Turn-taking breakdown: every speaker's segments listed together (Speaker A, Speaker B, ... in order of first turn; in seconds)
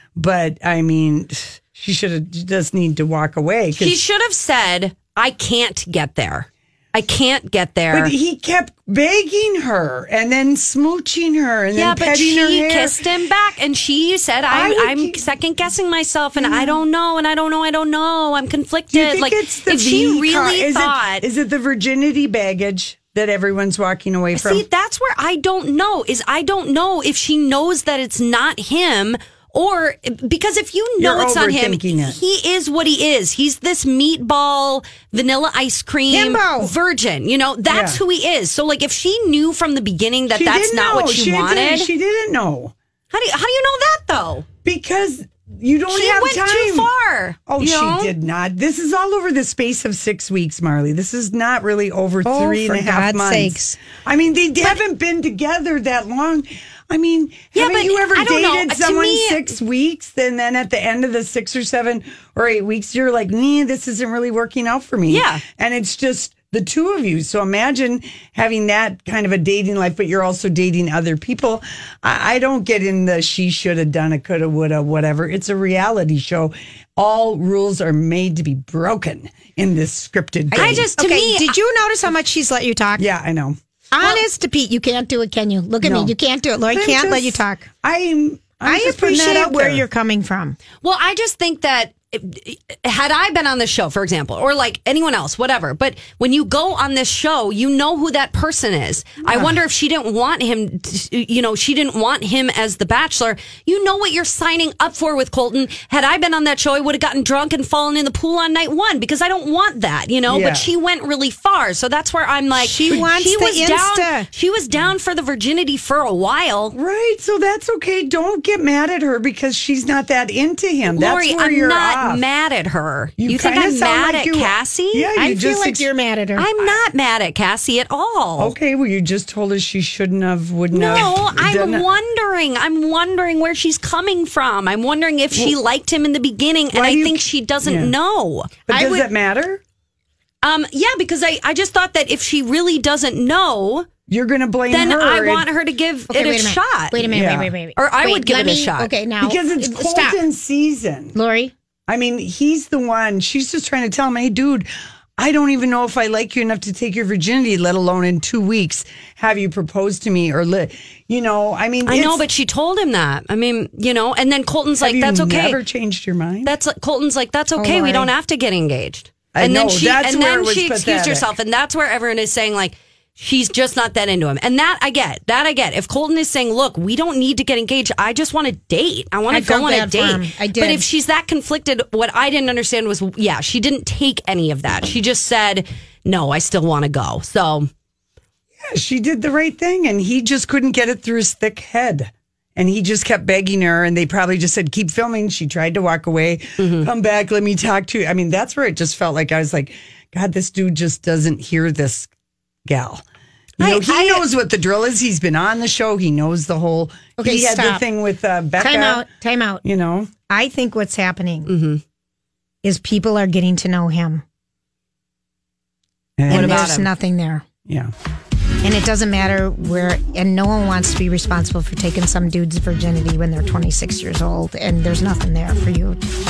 Speaker A: 0.1-4.0, 7.9-13.0, 14.5-15.2, 16.4-16.8, 18.9-24.6, 31.0-32.2, 37.7-38.0, 40.3-42.7, 44.6-46.9, 47.5-80.9, 83.0-84.2, 85.8-86.1, 86.7-89.8, 110.3-110.7, 116.7-122.2, 123.2-125.9, 128.4-131.8, 136.7-137.9, 138.7-139.6, 144.1-145.5, 147.1-147.5, 149.2-151.2, 151.9-162.2, 164.8-166.5, 169.3-171.3, 188.6-202.1, 202.7-203.0, 203.6-209.0, 209.6-210.1, 216.2-216.6
Speaker B: 3.7-8.1, 11.7-21.2, 24.3-41.9, 43.1-44.5, 45.9-48.1, 57.5-59.5, 65.1-65.4, 80.5-81.5, 90.8-116.8, 120.9-125.1, 126.3-128.5, 130.7-139.0, 140.4-143.9, 144.7-148.9, 161.8-165.6, 166.4-187.7, 196.6-196.9, 203.6-204.3, 211.4-211.8, 216.3-216.9
Speaker C: 36.1-36.7, 52.2-53.8, 80.5-83.0, 83.9-87.7, 88.6-90.6, 112.5-114.3, 125.1-126.8, 146.1-150.2, 151.1-151.5, 167.6-168.1, 179.3-180.9, 207.2-207.8, 208.6-209.6, 210.3-211.5, 212.6-214.2, 216.3-217.4, 218.6-226.0